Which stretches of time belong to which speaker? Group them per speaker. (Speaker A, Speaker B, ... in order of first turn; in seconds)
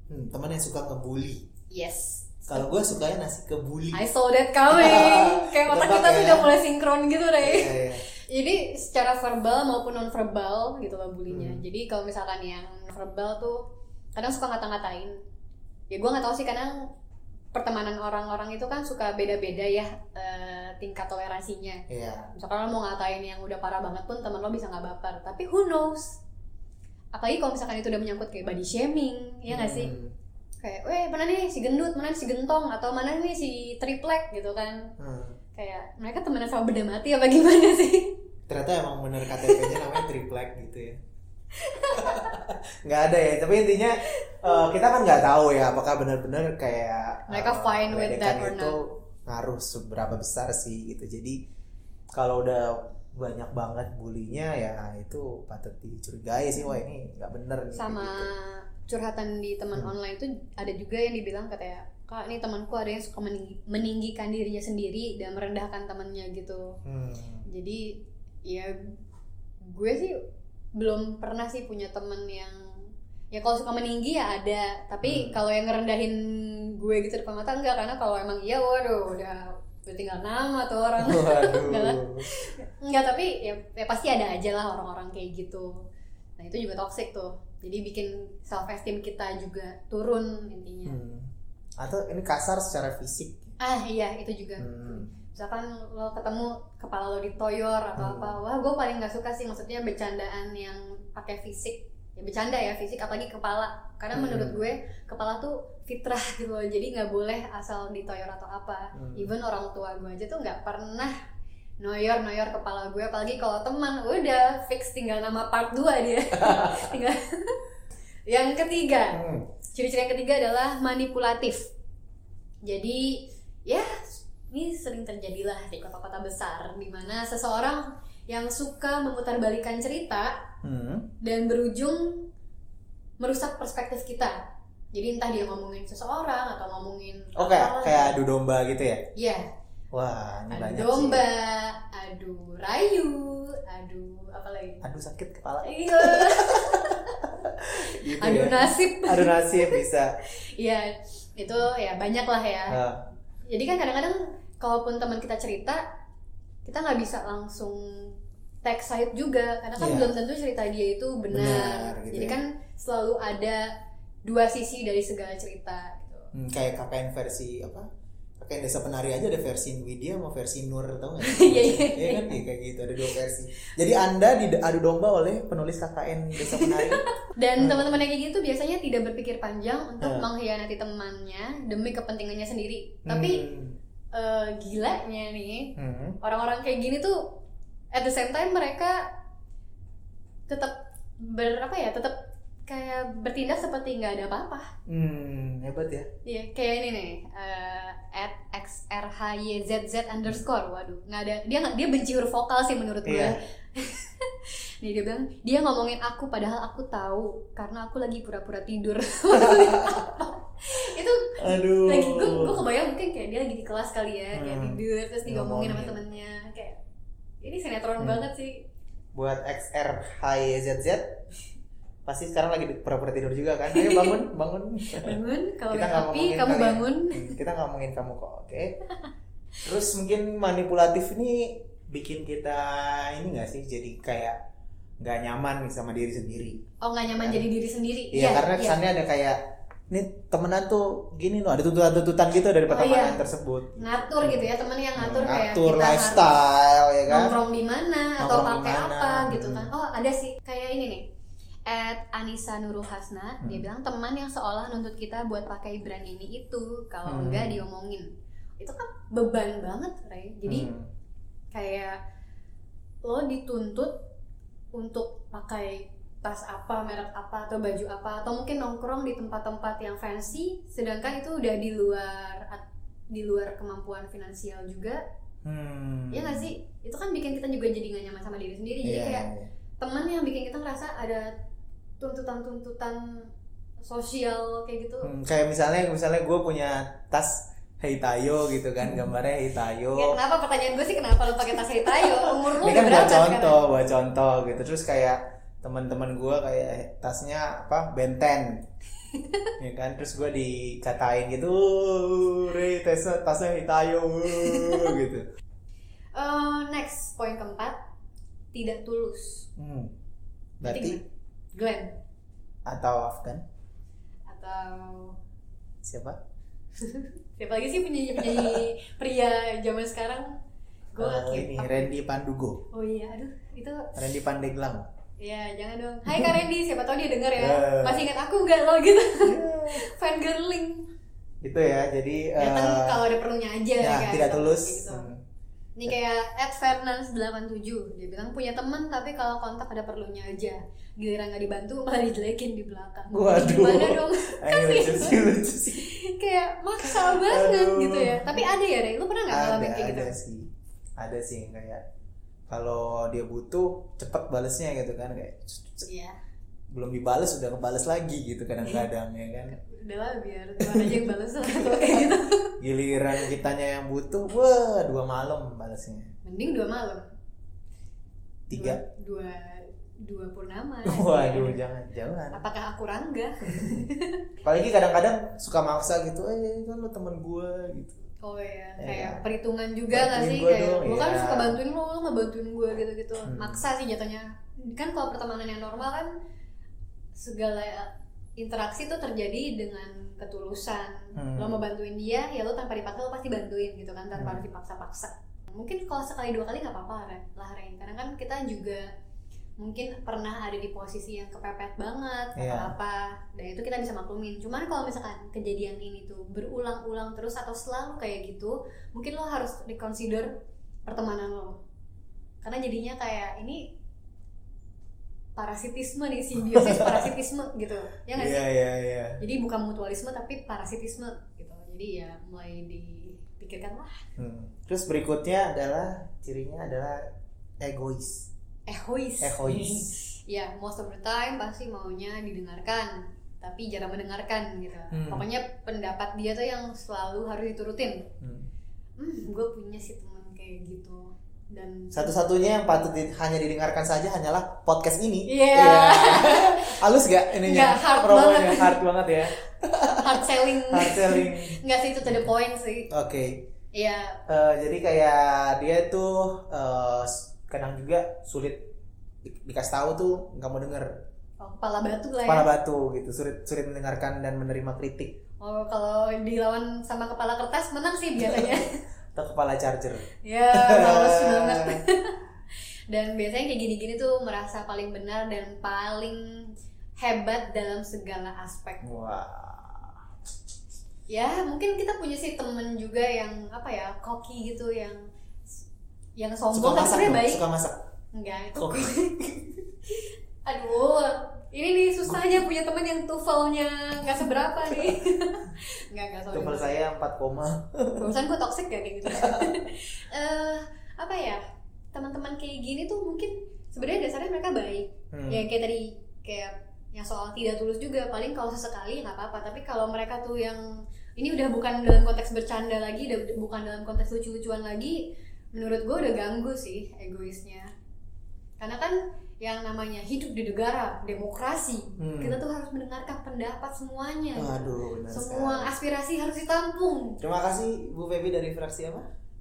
Speaker A: 0.1-1.4, 2.5-4.0, 4.7-6.5, 7.4-8.0, 11.3-11.6, 21.9-22.3, 29.5-30.1, 35.0-35.4, 38.5-41.0, 41.8-51.4, 52.1-58.3, 66.8-67.4, 75.0-75.4, 81.0-82.3, 90.8-93.5, 94.6-95.1, 98.0-98.4, 104.1-104.6, 109.0-109.3, 116.3-117.0, 119.1-119.5, 130.6-131.1, 137.3-139.1, 139.9-141.2, 144.8-150.2, 152.7-153.0, 159.8-160.1, 161.3-162.4, 166.3-167.9, 168.4-177.0, 177.6-178.0, 180.0-180.3, 183.1-183.8, 185.8-186.2, 194.9-196.1, 203.0-203.3, 209.3-210.0, 211.4-212.6, 214.3-216.0, 218.0-218.2, 219.1-221.2, 222.1-225.2, 225.7-228.8, 229.6-234.4, 235.0-236.6, 237.2-237.4, 238.1-247.4, 248.2-249.7, 253.4-253.7, 257.1-257.6, 260.4-260.9, 275.4-276.5, 278.8-279.5, 285.0-290.2, 291.5-298.6, 299.6-305.2, 309.6-309.9, 310.6-311.0, 312.6-313.4, 315.8-316.2, 318.2-318.6, 321.0-322.6, 323.9-324.9, 326.1-326.4, 327.4-328.1, 329.2-329.9, 331.4-333.0, 333.8-335.2, 343.1-345.9, 346.8-348.4, 349.3-351.8, 352.5-355.9, 356.7-359.6, 360.6-366.1, 368.5-368.8, 370.9-372.4, 373.5-373.9, 374.4-378.0, 378.8-379.2, 379.9-381.6, 383.2-383.6, 391.1-391.6, 394.1-394.4, 402.4-402.7, 416.4-417.1, 418.1-419.2, 424.2-428.3, 429.2-429.9, 434.9-435.3, 438.2-438.5, 441.9-452.3, 452.9-453.4, 454.3-458.7, 459.2-460.9, 462.2-465.2, 468.2-471.8, 478.8-480.0, 486.5-487.8, 488.5-489.6, 494.7-495.0, 496.3-498.2, 499.0-499.6, 505.1-505.5, 522.0-522.4, 524.4-525.7, 527.2-529.1
Speaker B: 1.7-2.7, 3.9-15.2, 15.9-16.9, 17.5-26.2, 27.1-29.9, 30.6-34.9, 35.5-38.1, 39.2-40.0, 41.6-42.4, 44.3-44.6, 47.3-48.8, 57.7-66.8, 67.5-68.7, 69.6-70.2, 70.8-85.8, 86.4-91.0, 93.6-111.1, 111.8-117.6, 118.3-121.7, 122.6-130.5, 131.2-132.3, 133.2-134.4, 134.9-138.2, 139.1-139.5, 140.5-144.8, 145.6-147.1, 148.2-149.8, 150.4-152.8, 153.5-155.8, 156.6-163.7, 164.2-166.3, 171.2-172.4, 176.4-183.4, 184.1-187.4, 187.9-189.1, 190.5-194.7, 196.2-216.8, 217.4-218.7, 223.7-224.2, 224.9-227.4, 236.8-238.8, 242.7-243.2, 243.8-246.4, 247.1-251.1, 251.7-260.7, 261.5-262.0, 263.0-264.0, 264.7-275.0, 276.1-279.3, 279.8-281.3, 282.0-285.1, 289.9-293.6, 299.1-299.5, 304.4-304.9, 306.1-307.8, 308.5-309.5, 310.6-312.0, 314.3-315.2, 316.8-320.4, 320.9-321.9, 322.7-323.9, 325.2-330.9, 332.4-335.1, 335.8-350.1, 355.9-356.2, 359.5-362.6, 366.2-367.1, 368.5-371.6, 372.3-374.2, 378.2-386.1, 387.1-398.9, 399.6-410.4, 410.9-411.6, 412.4-413.7, 415.4-418.4, 419.2-424.1, 428.7-438.1, 439.0-442.1, 445.2-446.8, 447.3-448.9, 450.0-452.9, 453.7-454.2, 461.4-462.5, 465.4-468.8, 470.2-472.2, 472.9-478.8, 481.1-485.0, 486.2-487.4, 488.1-489.3, 489.9-496.8, 498.0-517.7, 518.6-527.2